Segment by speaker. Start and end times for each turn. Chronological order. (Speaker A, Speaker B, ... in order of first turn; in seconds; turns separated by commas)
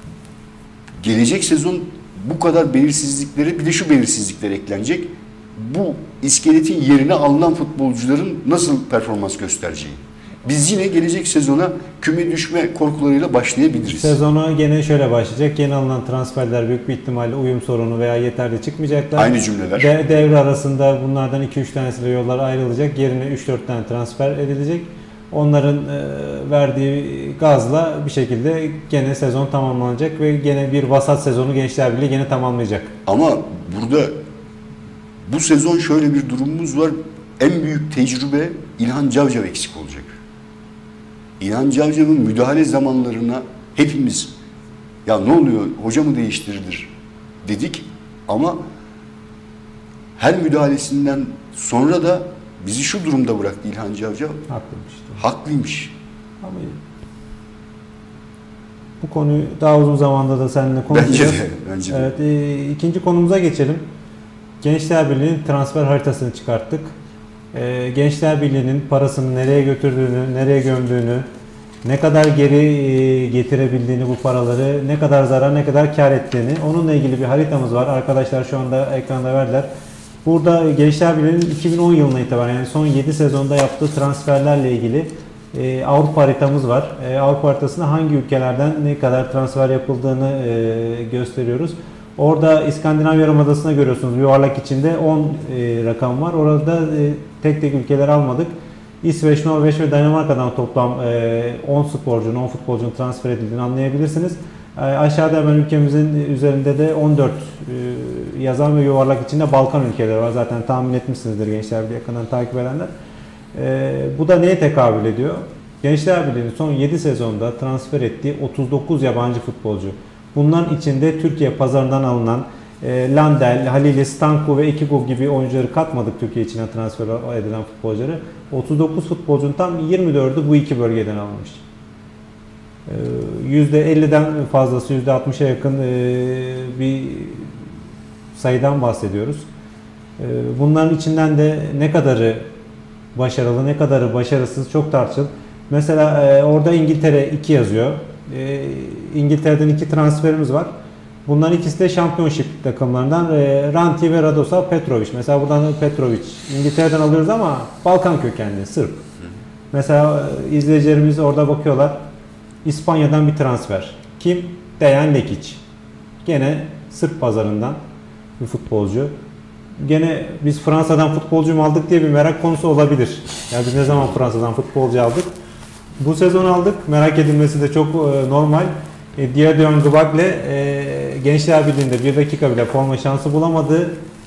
Speaker A: 1.0-14.2, Speaker B: 13.9-32.9, Speaker A: 19.1-19.9, Speaker A: 33.1-34.2, Speaker A: 35.3-40.2, Speaker A: 41.4-44.4, Speaker A: 45.1-46.9, Speaker A: 47.4-48.6, Speaker A: 50.2-54.5, Speaker B: 54.5-55.2, Speaker A: 55.2-56.0, Speaker B: 56.4-56.8, Speaker B: 59.0-63.8, Speaker A: 60.9-62.1, Speaker B: 64.6-66.9, Speaker B: 67.5-71.3, Speaker B: 71.8-79.7, Speaker B: 80.2-112.9, Speaker B: 113.5-131.6, Speaker B: 132.9-137.6, Speaker B: 138.3-139.5, Speaker B: 140.2-142.5, Speaker B: 143.2-150.7, Speaker B: 151.3-159.0, Speaker B: 159.7-162.1, Speaker B: 162.7-165.6, Speaker B: 166.2-167.8, Speaker B: 168.4-169.1, Speaker B: 169.8-175.3, Speaker B: 176.0-184.0